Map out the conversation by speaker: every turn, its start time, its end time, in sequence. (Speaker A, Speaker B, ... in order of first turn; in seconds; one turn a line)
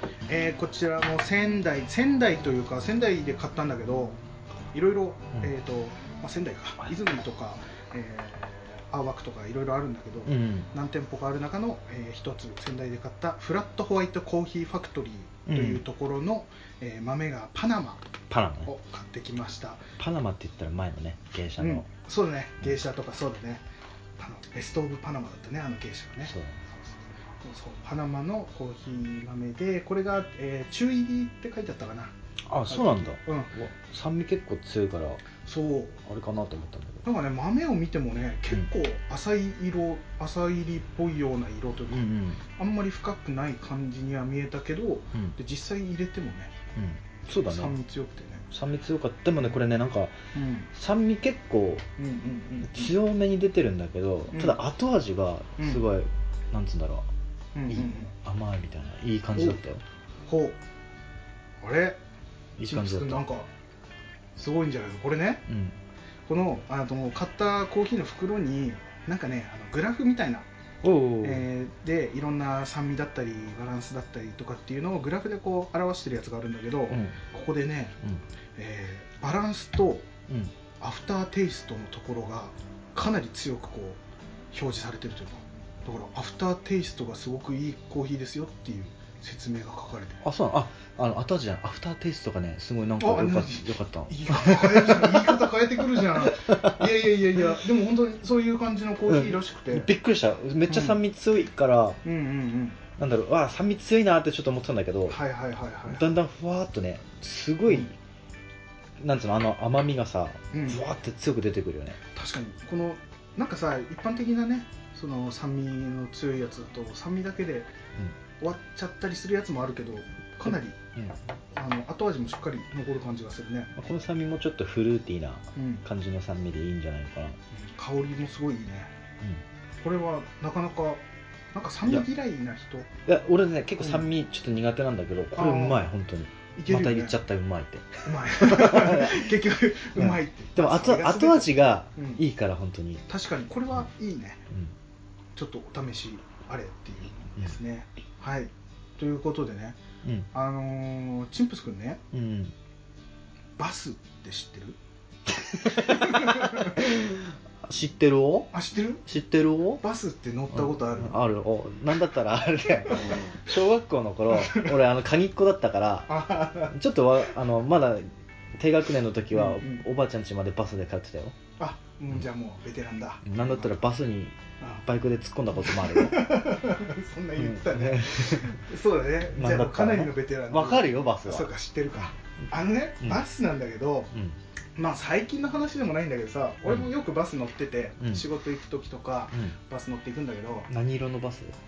Speaker A: 0.3-4.2
Speaker A: 4.7-18.1
Speaker B: 10.3-10.7
Speaker B: 15.5-15.8
Speaker B: 18.3-18.7
Speaker A: 18.6-19.8
Speaker B: 20.0-21.9
Speaker A: 21.6-23.6
Speaker A: 24.2-26.3
Speaker B: 26.2-26.8
Speaker A: 27.4-32.1
Speaker B: 32.5-35.3
Speaker A: 32.7-33.5
Speaker A: 35.4-36.0
Speaker B: 36.0-37.0
Speaker A: 37.0-46.5
Speaker B: 41.9-42.4
Speaker B: 46.8-47.8
Speaker A: 47.5-48.5
Speaker B: 48.5-50.2
Speaker A: 50.3-50.7
Speaker B: 50.7-51.9
Speaker A: 52.0-52.9
Speaker B: 52.6-57.1
Speaker A: 54.3-54.6
Speaker A: 55.6-55.8
Speaker A: 57.5-58.1
Speaker B: 57.7-59.8
Speaker A: 60.3-60.6
Speaker A: 61.6-62.0
Speaker B: 62.6-63.2
Speaker A: 62.7-63.5
Speaker A: 64.4-65.4
Speaker B: 65.5-65.8
Speaker A: 66.3-70.5
Speaker B: 70.8-71.5
Speaker A: 71.2-78.0
Speaker B: 76.9-77.2
Speaker A: 78.6-80.1
Speaker B: 80.3-80.5
Speaker A: 80.8-84.0
Speaker A: 84.5-90.2
Speaker B: 90.2-96.9
Speaker A: 93.0-99.9
Speaker B: 99.1-102.0
Speaker A: 100.7-101.0
Speaker A: 102.0-102.8
Speaker B: 103.0-105.2
Speaker A: 105.1-106.1
Speaker B: 105.9-108.0
Speaker B: 109.0-112.0
Speaker A: 110.5-110.8
Speaker A: 112.1-117.7
Speaker A: 118.4-120.8
Speaker A: 121.5-123.7
Speaker B: 123.8-127.4
Speaker A: 125.5-125.8
Speaker A: 127.5-128.9
Speaker A: 129.8-132.9
Speaker B: 133.1-139.3
Speaker A: 133.8-134.1
Speaker A: 135.4-135.9
Speaker A: 136.6-137.2
Speaker A: 138.1-142.2
Speaker B: 140.0-143.0
Speaker A: 143.1-144.5
Speaker A: 145.3-149.8
Speaker B: 150.0-150.3
Speaker A: 150.3-152.0
Speaker B: 152.1-152.6
Speaker A: 153.6-154.8
Speaker B: 155.5-158.5
Speaker A: 155.7-156.8
Speaker A: 158.5-159.0
Speaker B: 159.1-159.8
Speaker A: 159.8-161.2
Speaker B: 160.5-171.4
Speaker A: 162.9-163.4
Speaker A: 164.3-164.7
Speaker A: 166.1-166.8
Speaker A: 169.3-169.8
Speaker A: 171.6-173.7
Speaker B: 173.2-176.3
Speaker A: 175.6-184.1
Speaker B: 177.4-178.6
Speaker B: 179.3-181.5
Speaker B: 184.1-184.4
Speaker A: 184.8-190.7
Speaker B: 189.3-189.6
Speaker B: 190.7-191.6